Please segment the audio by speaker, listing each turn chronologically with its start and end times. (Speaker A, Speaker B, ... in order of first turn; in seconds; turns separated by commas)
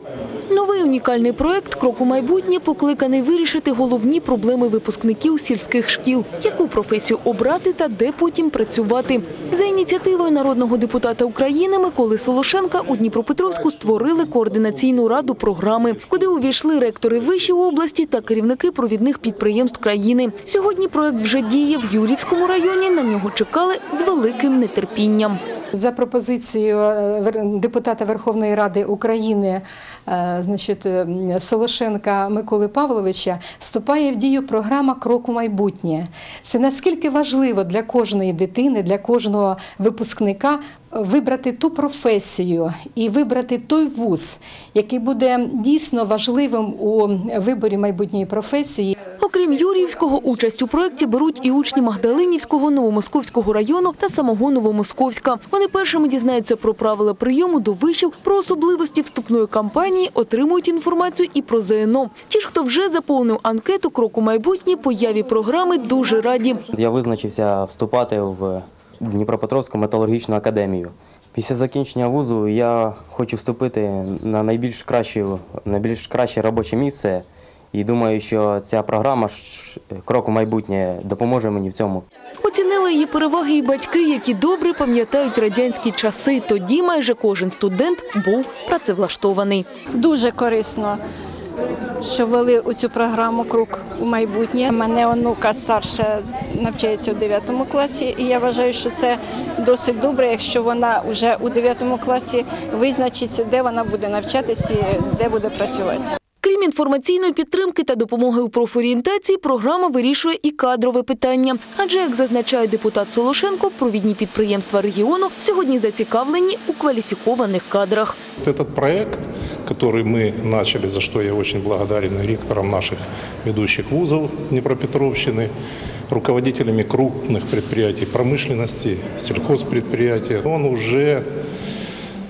Speaker A: 0.5-25.4, Speaker B: 25.7-48.9, Speaker A: 49.2-66.6, Speaker C: 66.7-82.0, Speaker A: 82.4-89.7, Speaker D: 90.0-91.0, Speaker D: 92.0-106.1, Speaker A: 106.4-118.2, Speaker E: 118.4-125.5, Speaker E: 126.1-131.2